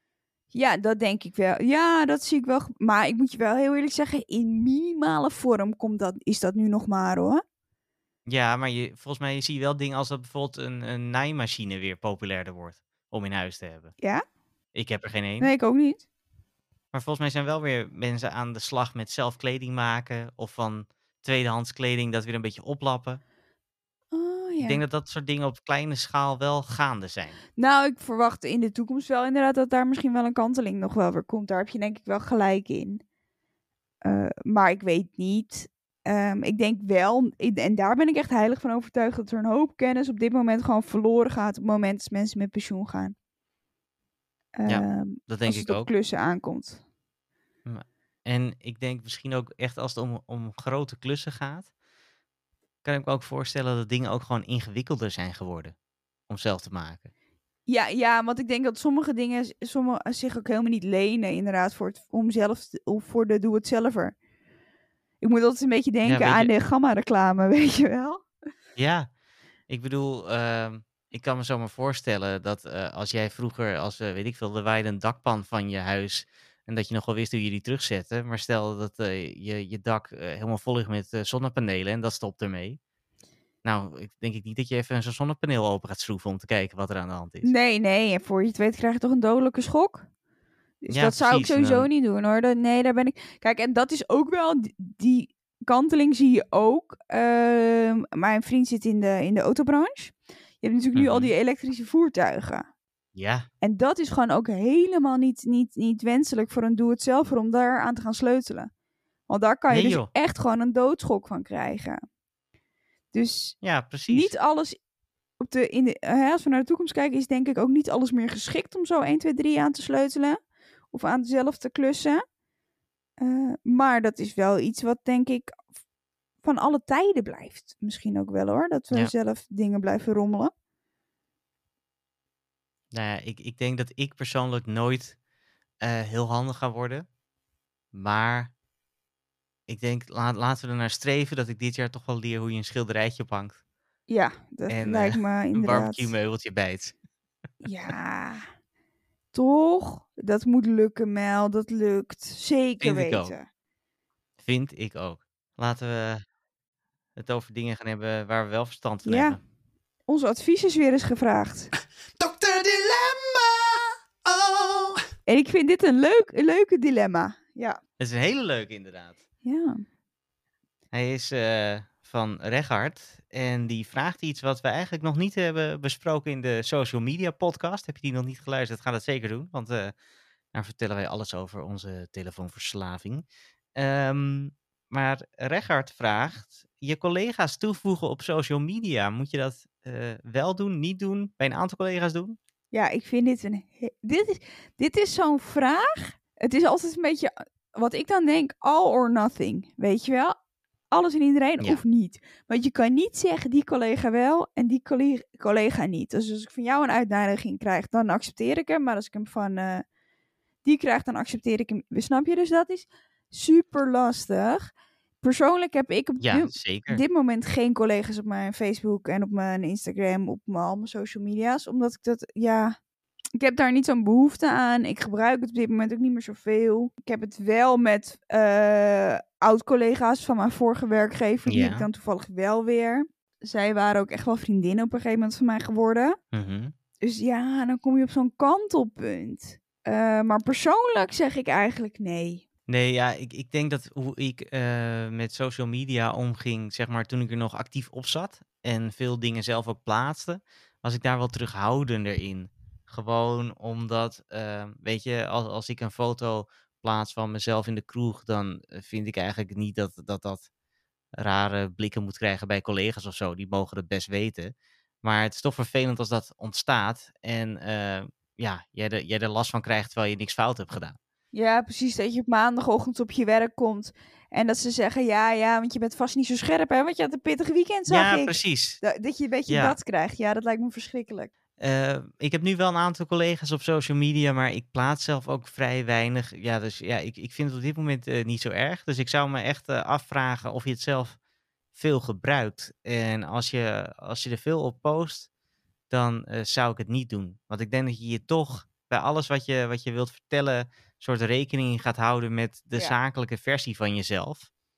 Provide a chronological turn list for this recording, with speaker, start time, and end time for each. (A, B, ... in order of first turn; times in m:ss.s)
0:00.5-0:07.4 A
0:08.3-0:13.9 B
0:14.7-0:15.5 B
0:15.4-0:16.0 A
0:16.9-0:23.2 B
0:24.1-0:24.8 A
0:24.6-0:27.4 B
0:27.6-0:33.0 A
0:34.0-0:43.2 A
0:44.6-0:46.8 A
0:44.7-0:45.9 B
0:47.7-0:51.7 B
0:52.8-0:55.7 B
0:56.3-0:57.1 B
0:57.7-1:04.2 A
1:05.2-1:08.2 A
1:06.0-1:06.5 B
1:08.8-1:09.1 B
1:09.7-1:22.8 B
1:23.6-1:27.5 B
1:27.4-1:30.1 A
1:30.8-1:42.7 A
1:30.9-1:31.9 B
1:41.0-1:41.3 B
1:43.2-1:43.5 B
1:43.6-1:48.7 A
1:49.3-1:52.0 A
1:49.7-1:50.1 B
1:53.1-1:54.8 A
1:53.6-1:54.3 B
1:55.4-2:00.4 A
2:00.9-2:02.2 A
2:03.2-2:05.6 A
2:06.4-2:10.5 A
2:12.9-2:15.2 B
2:15.8-2:17.1 B
2:17.9-2:18.5 B
2:19.7-2:23.6 B
2:24.1-2:26.1 A
2:24.7-2:26.9 B
2:27.6-2:28.5 A
2:29.3-2:33.5 A
2:32.8-2:33.3 B
2:34.4-2:36.2 B
2:37.2-2:39.4 B
2:39.1-2:39.4 A
2:40.1-2:41.7 A
2:42.2-2:45.1 C
2:45.3-2:47.8 A
2:48.0-2:49.2 B
2:49.4-2:49.8 A
2:50.9-2:59.9 B
3:00.5-3:03.2 B
3:03.8-3:12.4 B
3:12.7-3:20.4 A
3:20.9-3:29.8 A
3:30.6-3:42.8 A
3:36.2-3:37.0 B
3:43.4-3:56.2 A
3:51.5-3:51.9 B
3:56.3-3:56.7 B
3:57.0-4:02.4 A
4:02.7-4:20.5 B
4:21.2-4:31.0 B
4:31.3-4:41.3 A
4:37.9-4:38.8 B
4:39.5-4:39.8 B
4:41.6-4:51.2 B
4:51.8-4:55.3 B
4:55.9-5:04.5 B